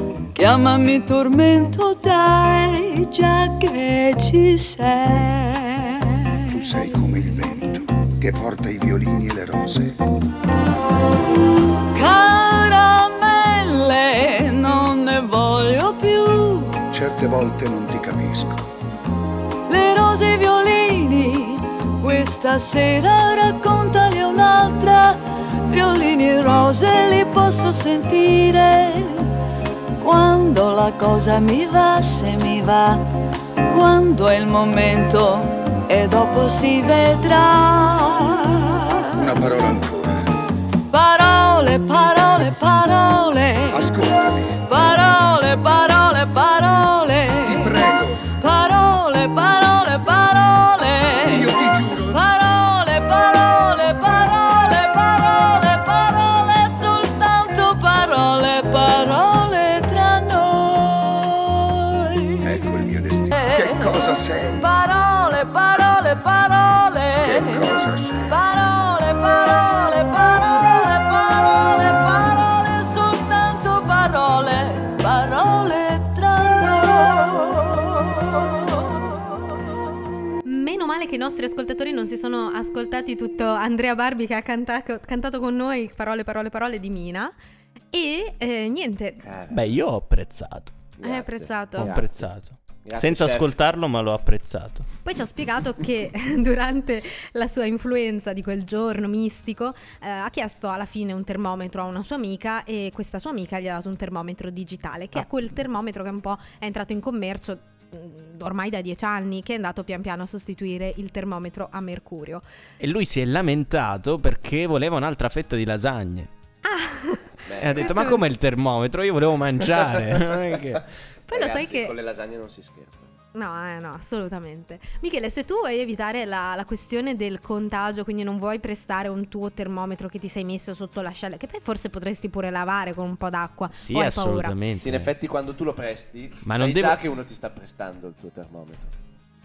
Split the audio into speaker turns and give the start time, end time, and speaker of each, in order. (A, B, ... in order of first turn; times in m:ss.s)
0:00.3-0:06.9 A
0:06.5-0:10.1 B
0:11.9-0:16.8 A
0:16.9-0:18.7 B
0:19.7-0:29.3 A
0:30.0-0:33.1 A
0:33.6-0:39.4 A
0:39.2-0:40.3 B
0:40.9-0:43.9 A
0:43.7-0:44.8 B
0:44.5-1:02.7 A
0:47.4-0:48.4 B
0:51.2-0:52.2 B
1:02.4-1:04.8 B
1:03.3-1:07.7 A
1:07.2-1:08.4 B
1:08.3-1:19.5 A
1:20.4-1:27.3 C
1:27.9-1:29.2 C
1:29.2-1:29.7 D
1:29.5-1:30.7 E
1:31.0-1:32.3 D
1:31.0-1:32.0 C
1:31.8-1:34.9 E
1:32.8-1:33.6 D
1:35.0-1:52.4 C
1:52.8-1:56.3 E
1:56.6-1:58.2 C
1:57.4-1:58.2 D
1:57.6-2:00.9 E
2:01.3-2:02.0 C
2:01.3-2:03.1 D
2:03.3-2:14.6 C
2:13.7-2:15.1 E
2:14.8-2:18.9 D
2:16.4-2:17.0 E